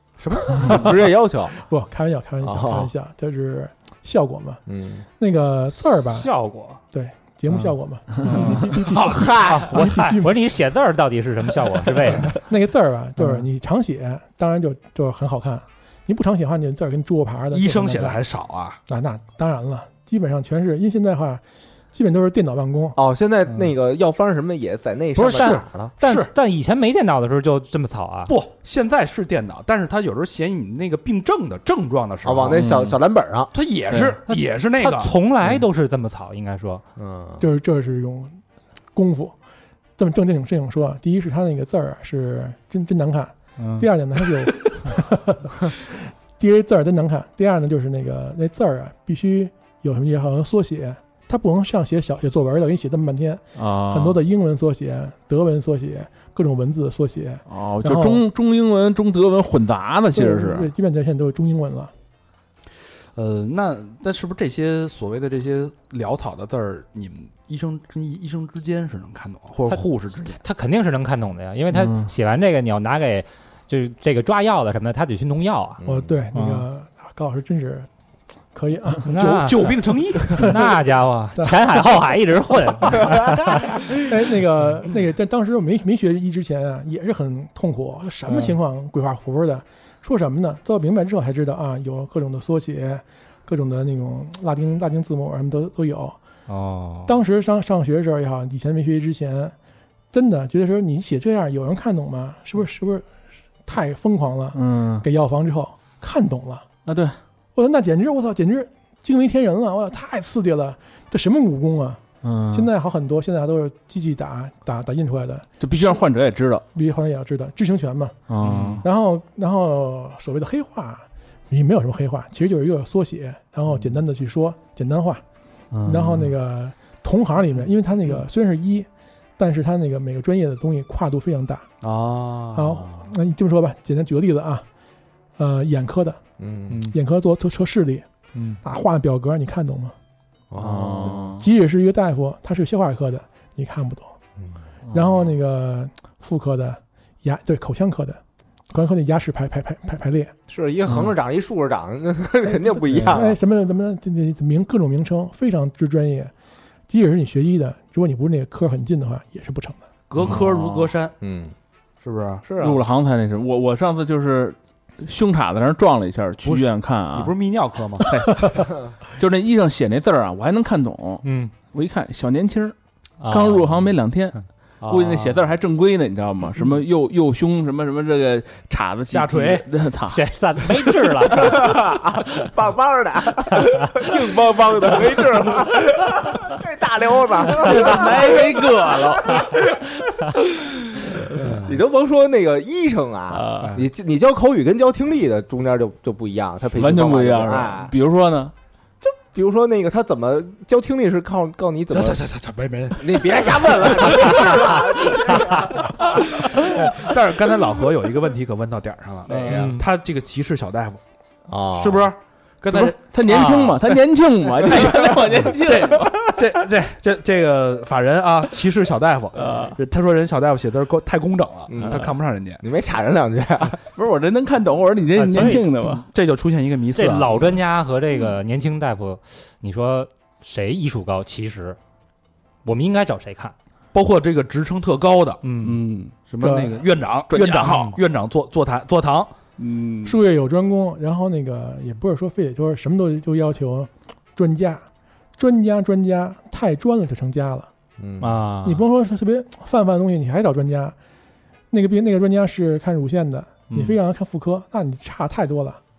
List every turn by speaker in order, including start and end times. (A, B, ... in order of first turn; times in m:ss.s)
0:00.2-0:00.9 A
0:00.5-0:01.6 B
0:00.6-0:00.8 C
0:01.6-0:04.6 C
0:02.4-0:02.9 B
0:04.7-0:05.0 B
0:05.2-0:06.3 C
0:06.1-0:06.8 D
0:06.9-0:10.4 C
0:08.2-0:08.7 D
0:08.9-0:10.2 A
0:09.0-0:09.7 B
0:09.7-0:12.4 D
0:12.3-0:18.2 C
0:17.5-0:18.8 A
0:18.9-0:23.0 C
0:23.0-0:25.9 B
0:25.2-0:28.4 D
0:25.3-0:26.3 A
0:28.3-0:32.7 A
0:32.2-0:33.5 B
0:32.6-0:33.0 E
0:33.5-0:35.1 A
0:33.9-0:36.8 D
0:37.0-0:37.4 B
0:37.4-0:38.4 C
0:38.9-0:39.4 C
0:40.0-0:58.2 C
0:43.6-0:43.9 D
0:53.6-0:54.2 E
0:57.5-1:00.7 E
1:00.1-1:01.9 C
1:03.2-1:10.4 A
1:10.3-1:15.8 D
1:11.7-1:12.1 E
1:15.8-1:16.2 B
1:15.8-1:17.9 C
1:16.3-1:16.7 D
1:18.5-1:19.2 C
1:19.0-1:23.8 D
1:19.2-1:20.5 A
1:24.0-1:36.2 C
1:28.3-1:28.5 D
1:36.5-1:37.2 D
1:37.0-1:39.6 C
1:40.1-1:43.1 C
1:43.6-1:46.7 C
1:44.5-1:45.0 E
1:46.9-1:47.2 E
1:47.6-1:56.0 C
1:52.2-1:52.7 E
1:55.6-1:56.6 E
1:56.7-1:58.2 C
1:58.3-1:58.9 E
1:58.4-1:58.8 D
1:58.8-2:05.2 C
2:05.7-2:06.3 E
2:05.8-2:11.7 C
2:11.8-2:13.0 A
2:12.5-2:14.6 C
2:15.4-2:16.2 C
2:16.4-2:16.8 B
2:16.7-2:17.0 D
2:16.9-2:18.1 C
2:18.3-2:18.6 D
2:18.6-2:20.0 C
2:20.5-2:21.4 B
2:20.6-2:21.5 E
2:21.3-2:24.2 C
2:24.9-2:30.3 C
2:30.5-2:33.4 B
2:32.9-2:36.3 C
2:36.9-2:39.8 C
2:40.1-2:41.2 A
2:40.2-2:40.9 E
2:41.2-2:41.5 B
2:42.0-2:42.4 A
2:42.4-2:42.8 B
2:42.6-2:47.4 E
2:46.4-2:48.4 A
2:48.0-2:52.8 E
2:51.2-2:51.5 D
2:53.2-2:53.8 D
2:53.3-3:00.2 E
2:54.8-2:55.4 A
2:59.1-2:59.7 A
3:00.1-3:01.9 D
3:01.4-3:10.0 B
3:07.5-3:09.7 E
3:11.0-3:17.9 B
3:11.3-3:11.8 A
3:13.3-3:13.8 E
3:13.6-3:13.9 A
3:16.7-3:18.5 E
3:19.0-3:22.2 B
3:21.9-3:25.2 A
3:23.0-3:27.0 B
3:26.0-3:31.0 A
3:29.3-3:29.7 B
3:29.5-3:29.8 D
3:31.5-3:32.1 B
3:31.8-3:34.0 A
3:32.7-3:36.3 E
3:34.6-3:35.5 B
3:34.9-3:42.6 A
3:39.4-3:39.7 E
3:41.7-3:42.1 B
3:41.8-3:42.1 E
3:42.6-3:43.8 B
3:44.0-3:46.1 E
3:45.2-3:46.0 D
3:45.6-3:47.5 A
3:47.0-3:51.8 D
3:52.6-3:53.5 D
3:53.9-3:59.3 A
3:55.4-3:55.8 D
3:56.4-3:56.8 C
3:57.3-3:58.0 E
3:59.6-4:00.2 E
4:00.0-4:04.9 C
4:05.4-4:07.7 C
4:08.0-4:08.4 B
4:08.2-4:08.9 D
4:08.6-4:11.0 C
4:11.7-4:15.8 C
4:13.7-4:14.0 D